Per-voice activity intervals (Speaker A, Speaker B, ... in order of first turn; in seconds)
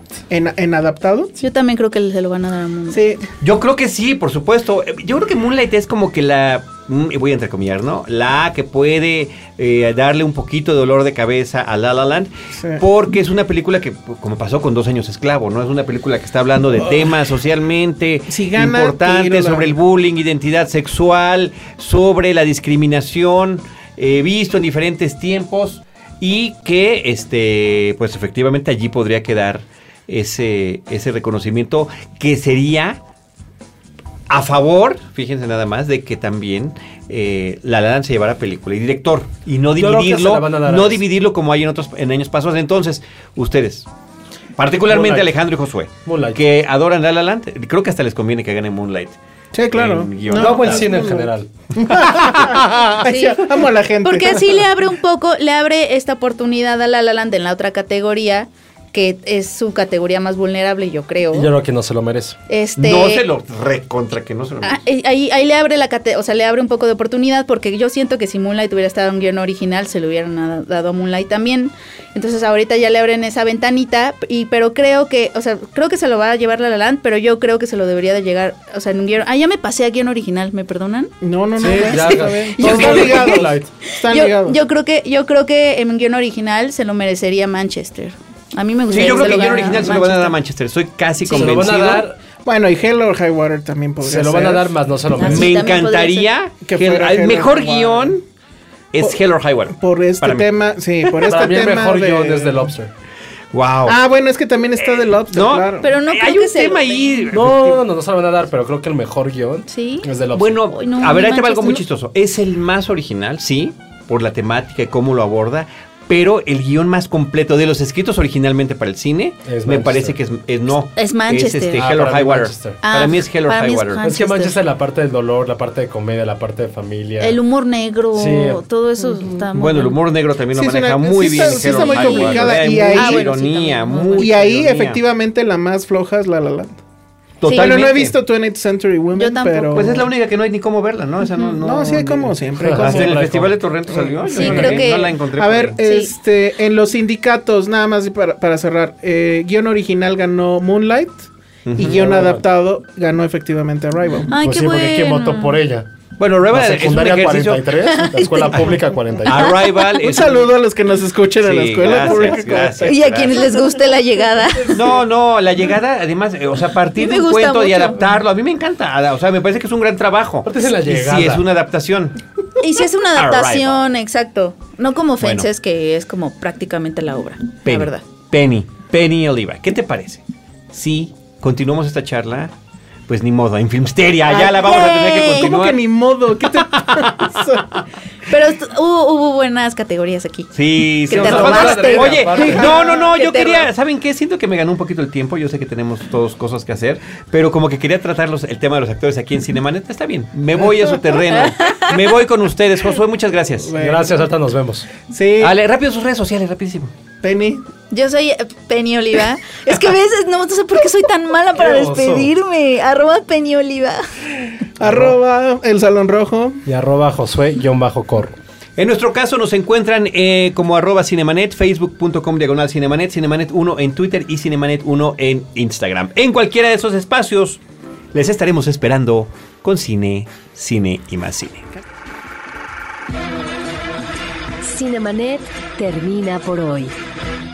Speaker A: 0.3-1.3, 2.9-3.2, 12.5-12.8, 18.3-19.7, 49.5-54.6, 81.2-84.6, 92.4-94.7, 96.6-98.2, 99.7-102.7, 103.8-105.9, 130.5-133.3, 134.2-136.8, 137.4-140.1, 141.6-143.2, 143.9-151.2, 151.8-154.3, 160.0-164.8, 184.2-187.7, 192.5-193.1, 203.6-204.2, 205.1-205.5, 207.2-207.6, 214.8-216.6
Speaker B: 1.4-3.0, 53.0-61.5, 62.5-63.2, 64.6-90.3, 91.2-91.5, 95.2-96.3, 105.8-107.3, 109.7-110.1, 110.7-111.8, 121.0-121.8, 122.8-124.6, 127.2-129.9, 131.2-134.3, 137.4-138.1, 139.1-140.0, 144.3-145.1, 145.8-146.1, 154.3-155.6, 157.8-160.0, 162.8-165.0, 166.9-168.0, 172.6-178.0, 184.5-185.6, 188.3-193.7, 201.7-201.9, 207.9-214.0
Speaker C: 3.4-33.0, 34.3-43.9, 44.6-49.2, 49.7-51.0, 51.9-52.9, 62.8-64.8, 88.9-92.0, 95.2-98.2, 98.9-100.5, 103.5-104.0, 104.8-107.7, 110.3-124.0, 129.5-135.0, 137.4-138.1, 139.7-145.8, 151.7-152.1, 156.2-157.7, 159.2-160.5, 161.4-163.5, 164.7-172.2, 173.2-173.8, 175.2-175.5, 177.6-182.5, 183.1-185.8, 186.4-187.8, 190.5-203.7, 205.4-206.9, 218.8-227.6, 228.1-231.7
Speaker D: 39.8-41.0, 44.9-45.3, 46.0-46.4, 50.3-51.5, 61.3-62.4, 81.6-83.7, 91.3-92.2, 94.0-95.6, 101.2-102.9, 107.3-110.7, 119.4-120.2, 121.8-122.8, 124.0-127.4, 128.1-128.6, 142.6-143.6, 144.3-144.8, 151.8-152.4, 154.3-155.9, 156.5-159.6, 170.4-171.5, 191.1-192.8, 203.8-204.9, 211.6-212.3, 214.8-215.2, 216.6-218.4
Speaker E: 234.6-236.9